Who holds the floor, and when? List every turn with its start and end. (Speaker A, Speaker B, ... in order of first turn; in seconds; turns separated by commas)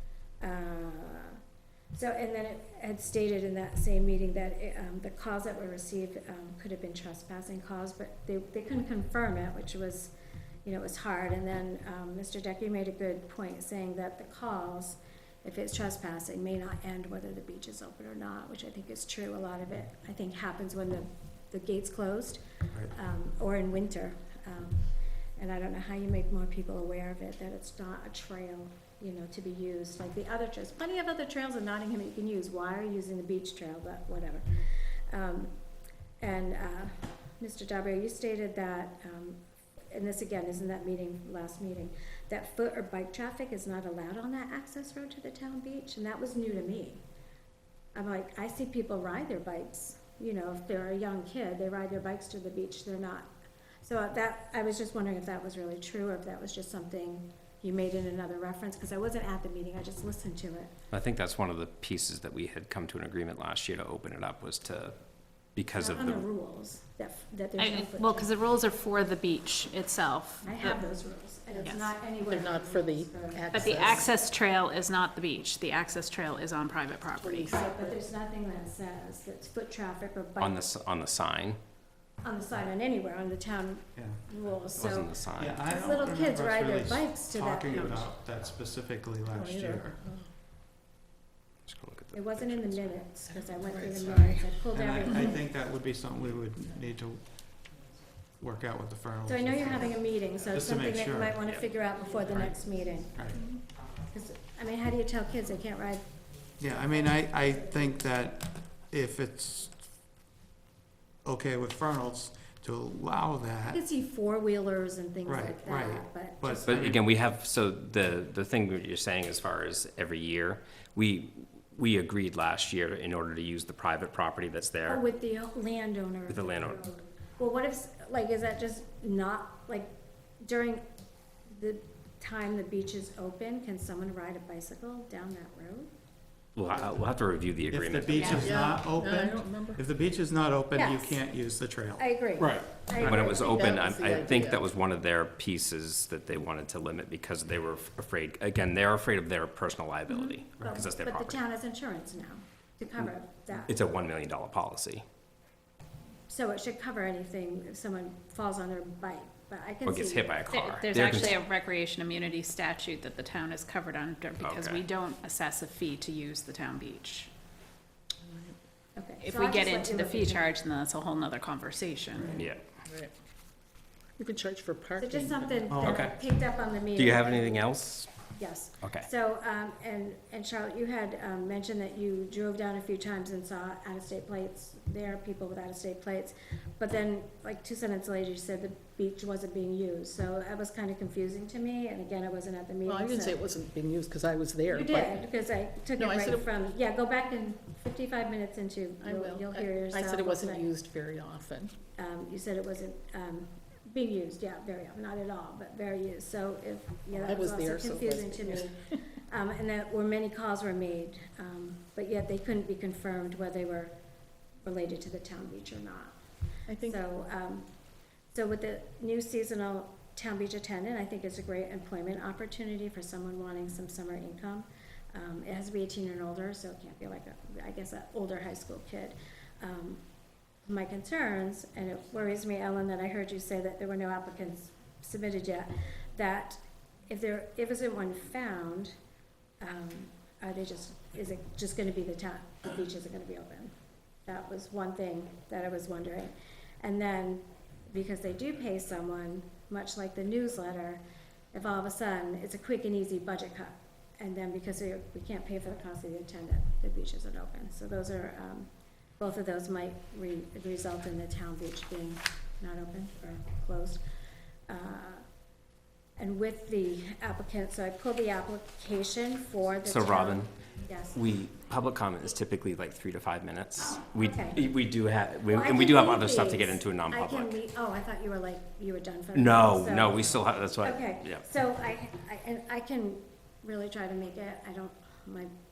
Speaker A: 0.4-1.4, Speaker A: 1.9-10.1, Speaker A: 10.6-24.8, Speaker A: 25.4-35.5, Speaker A: 36.2-39.4, Speaker A: 39.9-47.0, Speaker A: 47.9-53.3, Speaker A: 53.8-60.7, Speaker B: 60.9-64.9, Speaker B: 65.5-66.2, Speaker A: 65.8-68.3, Speaker C: 67.6-70.8, Speaker A: 70.4-74.0, Speaker D: 71.6-74.1, Speaker C: 71.6-71.9, Speaker C: 73.5-77.5, Speaker D: 77.2-78.0, Speaker A: 77.5-80.7, Speaker B: 80.4-81.6, Speaker A: 82.2-88.1, Speaker E: 84.0-84.3, Speaker B: 84.8-85.6, Speaker E: 85.4-90.0, Speaker C: 87.7-88.0, Speaker D: 89.3-90.3, Speaker B: 91.7-93.0, Speaker A: 92.1-95.4, Speaker D: 93.3-94.4, Speaker E: 94.7-97.2, Speaker E: 98.4-100.0, Speaker A: 99.2-103.2, Speaker E: 100.5-101.4, Speaker E: 102.2-102.6, Speaker E: 103.1-103.4, Speaker A: 104.1-106.0, Speaker E: 106.6-109.8, Speaker E: 111.2-113.8, Speaker A: 113.7-116.7, Speaker E: 115.2-117.0, Speaker B: 116.6-125.0, Speaker A: 124.9-130.9, Speaker B: 126.3-126.8, Speaker A: 131.5-135.9, Speaker B: 136.6-138.6, Speaker E: 137.7-143.3, Speaker C: 138.1-138.5, Speaker D: 138.4-139.8, Speaker A: 140.7-141.2, Speaker A: 142.0-144.4, Speaker B: 143.0-151.4, Speaker D: 143.4-144.6, Speaker C: 150.1-150.4, Speaker A: 150.6-153.7, Speaker B: 153.7-155.0, Speaker A: 156.3-160.4, Speaker B: 159.8-161.4, Speaker C: 160.5-167.3, Speaker B: 164.4-164.8, Speaker D: 168.2-168.6, Speaker A: 168.9-170.5, Speaker C: 169.2-172.4, Speaker B: 172.3-172.6, Speaker D: 172.8-173.1, Speaker D: 174.2-175.7, Speaker A: 175.0-177.7, Speaker E: 175.7-176.1, Speaker B: 175.8-176.2, Speaker B: 176.9-178.1, Speaker A: 178.3-193.4, Speaker B: 178.8-179.1, Speaker D: 192.8-195.2, Speaker A: 194.7-200.7, Speaker D: 195.9-196.5, Speaker D: 199.0-201.7, Speaker A: 202.0-213.9, Speaker D: 207.1-208.9, Speaker A: 214.6-216.2, Speaker D: 216.7-217.0, Speaker A: 216.8-217.7, Speaker A: 218.3-230.0, Speaker A: 230.7-238.9, Speaker A: 239.6-243.7, Speaker A: 244.2-251.0, Speaker A: 251.5-264.0, Speaker A: 264.7-265.2, Speaker A: 266.2-271.2, Speaker B: 269.8-270.5, Speaker B: 271.1-277.6, Speaker A: 274.1-274.6, Speaker A: 275.5-285.5, Speaker B: 279.3-281.4